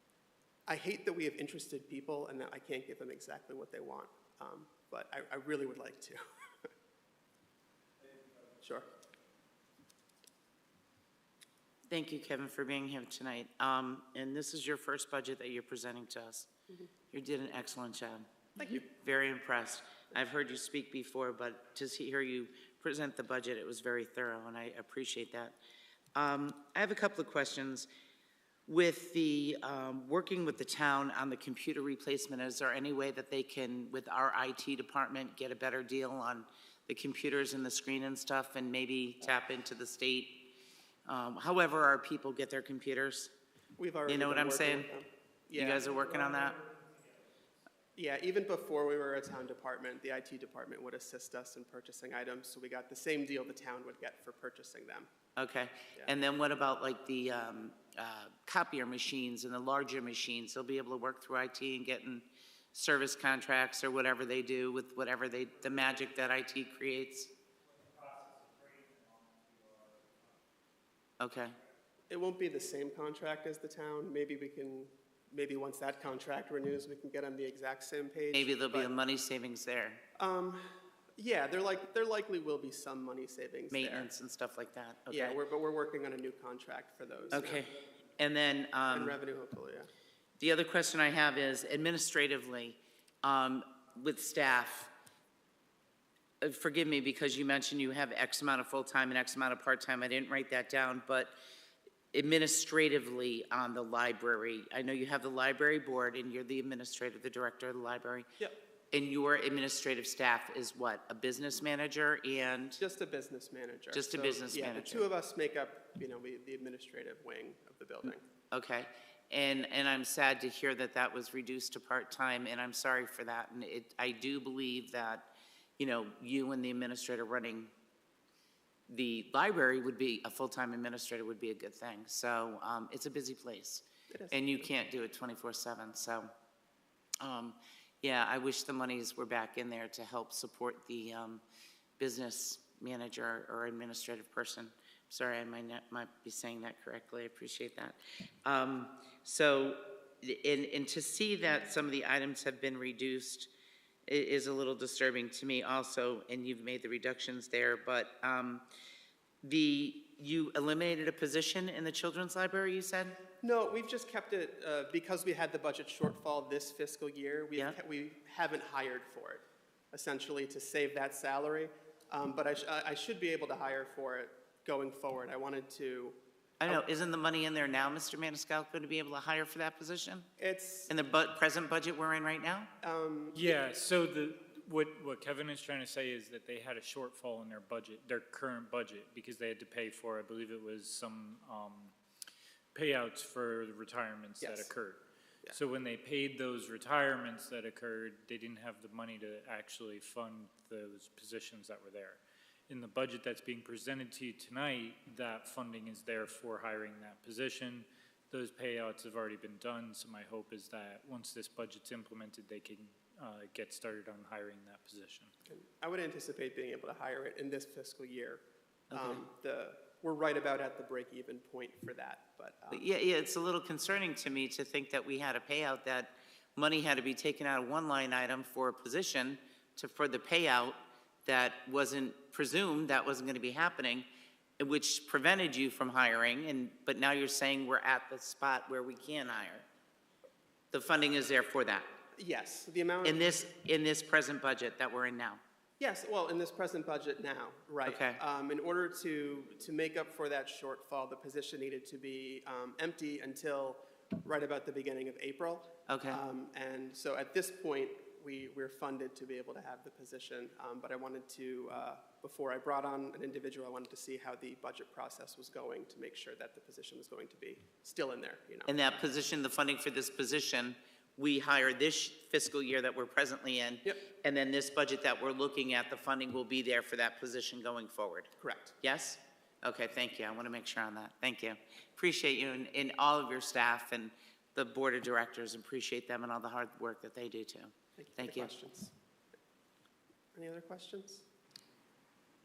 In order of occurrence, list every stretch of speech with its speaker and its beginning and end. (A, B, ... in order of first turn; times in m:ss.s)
0:00.7-0:06.7 A
0:08.6-0:08.9 A
0:11.9-0:16.5 B
0:17.1-0:25.6 B
0:18.6-0:18.8 A
0:26.2-0:27.9 B
0:28.7-0:40.5 B
0:41.0-0:43.3 B
0:43.8-0:45.9 A
0:44.1-0:44.9 B
0:45.5-0:46.6 B
0:46.6-0:47.0 C
0:48.0-0:55.1 A
0:55.4-1:07.3 B
1:07.6-1:10.3 C
1:11.2-1:11.6 B
1:12.1-1:18.9 A
1:18.3-1:20.0 B
1:20.2-1:24.1 A
1:23.7-1:25.4 B
1:25.1-1:27.7 A
1:27.3-1:29.2 B
1:28.9-1:29.9 A
1:30.4-1:34.9 B
1:36.4-1:41.3 B
1:42.1-1:48.3 B
1:48.9-1:52.8 B
1:52.8-1:58.2 A
1:53.9-1:55.1 B
1:58.5-2:07.7 B
2:08.9-2:16.3 B
2:14.1-2:14.7 A
2:17.2-2:21.4 B
2:22.0-2:33.5 B
2:34.1-2:38.7 B
2:39.4-2:43.2 B
2:43.4-2:56.8 A
2:56.6-3:00.3 B
3:00.4-3:00.9 A
3:00.9-3:02.7 B
3:02.8-3:03.6 A
3:03.3-3:11.9 C
3:12.8-3:35.3 C
3:14.4-3:14.7 A
3:35.5-3:42.8 A
3:38.9-3:39.2 B
3:42.7-3:54.1 B
3:54.6-3:59.7 B
4:00.7-4:01.9 B
4:02.2-4:03.4 A
4:03.0-4:05.4 B
4:05.8-4:28.8 A
4:07.8-4:08.2 B
4:15.9-4:16.2 B
4:28.7-4:48.5 B
4:38.4-4:38.8 A
4:48.0-4:48.9 A
4:50.3-4:51.2 A